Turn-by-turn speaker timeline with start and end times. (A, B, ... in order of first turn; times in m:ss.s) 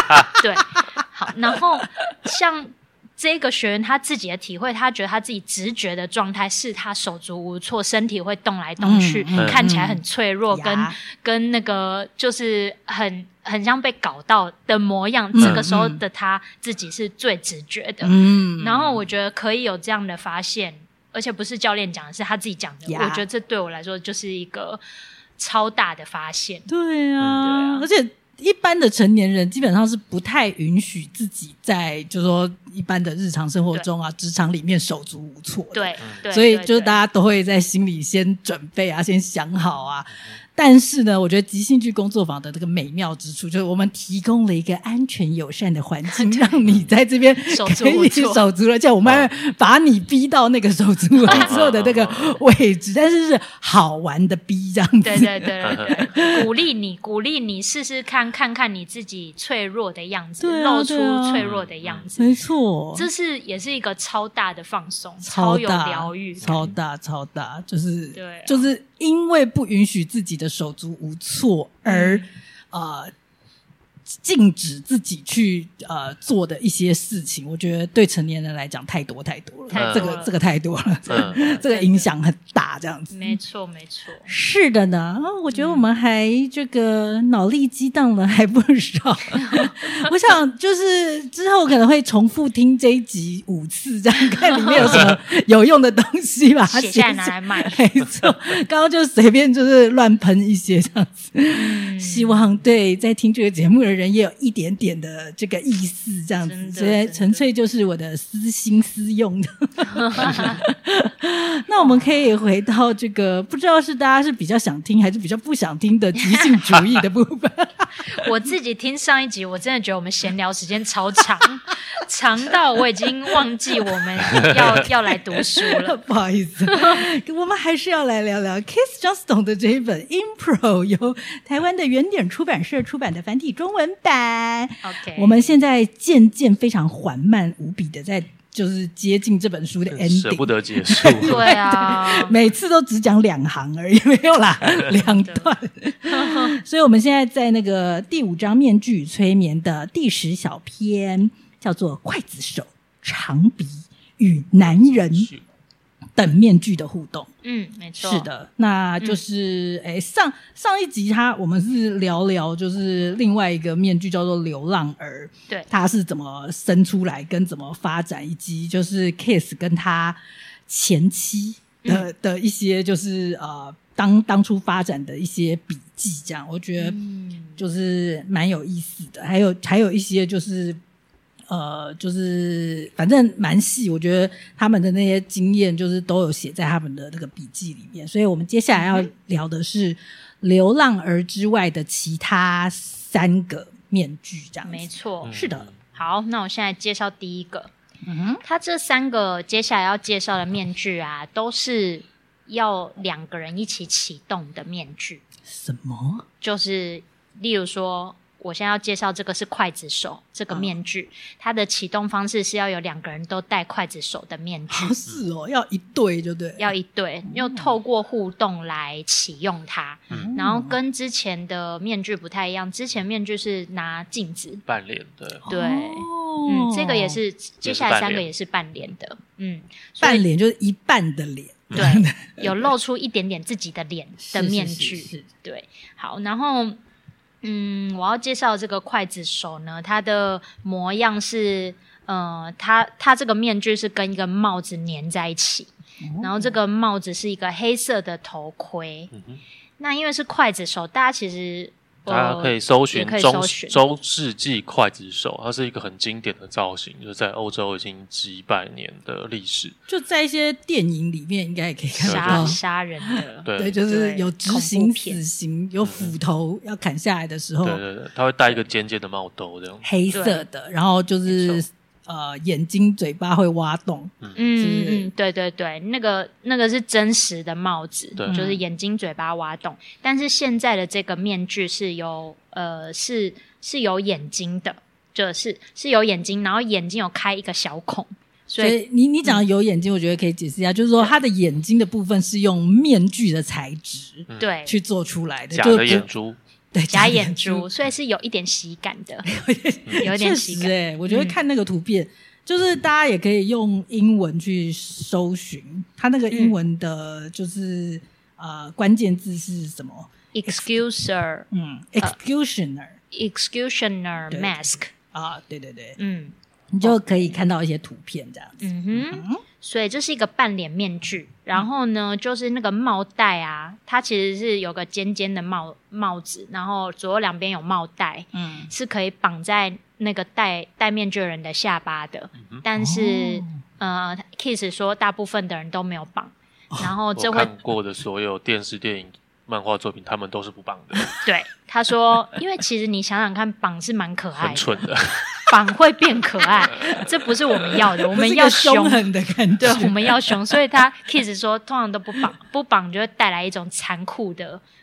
0:00.3-0:24.8 A
0:08.8-0:11.0 B
0:09.4-0:09.6 C
0:15.3-0:16.0 B
0:15.4-0:15.6 C
0:18.0-0:18.8 B
0:22.9-0:23.2 B
0:25.4-0:26.7 A
0:26.7-0:56.4 B
0:27.2-0:27.4 C
0:27.4-0:27.9 A
0:35.7-0:37.0 A
0:46.1-0:46.6 A
0:47.5-0:48.4 A
0:51.3-0:52.4 C
0:55.0-1:02.3 A
1:00.4-1:01.5 B
1:01.4-1:02.1 C
1:02.2-1:03.1 B
1:02.9-1:06.7 A
1:05.2-1:13.1 B
1:06.4-1:06.7 C
1:08.1-1:08.7 A
1:11.9-1:12.3 A
1:14.1-1:23.4 B
1:19.7-1:20.3 A
1:19.7-1:20.1 C
1:21.1-1:21.5 C
1:21.1-1:22.1 A
1:23.1-1:24.3 A
1:24.3-1:58.3 B
1:25.5-1:25.8 A
1:29.4-1:29.8 A
1:36.7-1:37.8 A
1:41.5-1:42.4 A
1:46.4-1:47.5 A
1:49.8-1:50.6 A
1:51.8-1:52.1 A
1:56.2-1:56.6 A
1:58.1-2:06.0 A
2:03.9-2:35.3 B
2:06.7-2:07.0 A
2:14.8-2:15.5 A
2:19.9-2:21.4 C
2:21.2-2:22.4 A
2:25.1-2:25.5 A
2:26.1-2:26.6 A
2:34.6-2:35.4 C
2:36.2-2:37.3 B
2:37.4-2:38.3 A
2:38.0-2:57.0 B
2:56.8-2:57.6 A
2:57.6-3:00.8 B
3:01.5-3:15.7 B
3:08.8-3:09.1 A
3:14.6-3:15.3 A
3:15.2-3:15.8 C
3:15.9-3:17.7 A
3:18.0-3:18.4 B
3:18.4-3:25.2 A
3:25.5-3:26.2 B
3:26.4-3:35.0 A
3:34.7-3:36.7 B
3:36.6-3:44.6 A
3:37.3-3:37.7 B
3:40.1-3:40.8 B
3:44.7-3:45.4 C
3:45.4-3:47.2 B
3:45.5-3:50.2 A
3:47.6-3:48.3 C
3:50.0-3:52.7 B
3:51.8-3:56.8 A
3:54.2-3:55.3 B
3:57.4-4:09.1 A
4:06.0-4:06.6 B
4:09.1-4:09.4 C
4:09.8-4:13.8 A
4:12.1-4:19.8 C
4:19.9-4:27.8 B
4:22.0-4:22.6 C
4:22.0-4:25.2 A
4:23.5-4:23.8 C
4:25.8-4:26.2 C
4:27.6-4:29.9 C
4:29.8-4:35.1 B
4:30.1-4:30.4 A
4:31.3-4:31.6 A
4:34.4-4:49.4 A
4:38.3-4:38.6 B
4:48.6-4:56.1 B
4:54.4-4:54.8 A
4:55.5-4:56.4 C
4:56.7-4:57.7 B
4:56.9-4:59.3 A
4:59.3-5:10.8 B
5:00.0-5:01.4 A
5:06.3-5:06.6 A
5:10.3-5:11.5 A
5:11.5-5:13.0 B
5:13.1-5:14.9 A
5:14.3-5:16.0 B
5:16.0-5:17.0 A
5:16.7-5:19.4 B
5:18.6-5:37.5 A
5:28.3-5:28.7 B
5:32.4-5:32.6 C
5:32.8-5:33.6 B
5:37.2-5:41.2 C
5:41.2-5:44.8 A
5:44.4-5:45.4 C
5:45.5-5:49.0 A
5:48.1-5:50.6 B
5:49.6-5:54.6 A